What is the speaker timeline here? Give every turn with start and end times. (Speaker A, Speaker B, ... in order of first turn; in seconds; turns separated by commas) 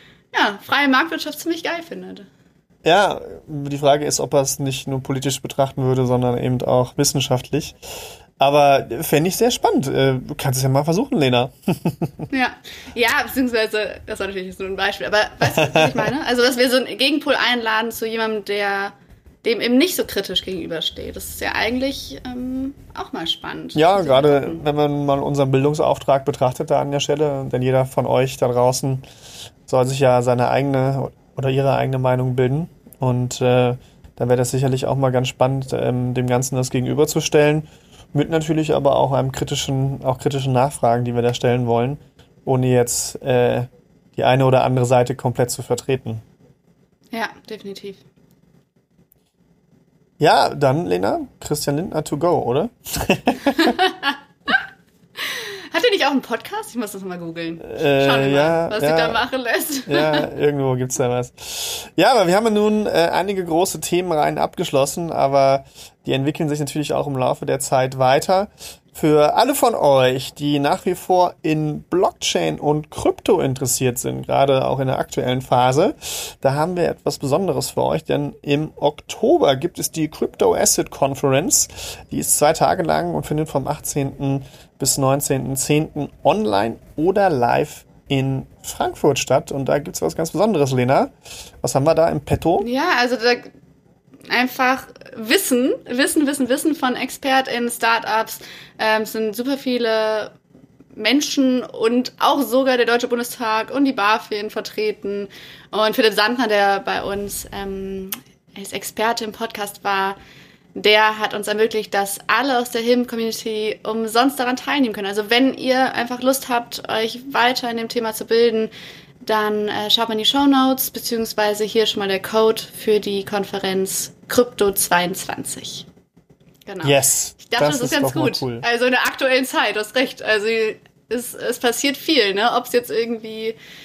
Speaker A: 0.3-2.3, Speaker B: 2.8-12.2, Speaker A: 12.3-24.6, Speaker B: 15.4-16.1, Speaker B: 23.7-29.0, Speaker B: 29.6-46.2, Speaker A: 47.1-48.0, Speaker B: 50.2-53.8, Speaker A: 53.5-54.1, Speaker A: 55.2-60.3, Speaker B: 57.6-59.2, Speaker B: 59.9-92.7, Speaker A: 92.6-93.5, Speaker A: 94.3-100.3, Speaker A: 100.9-110.2, Speaker A: 110.7-118.7, Speaker A: 119.2-125.8, Speaker A: 126.7-133.6, Speaker B: 126.8-128.6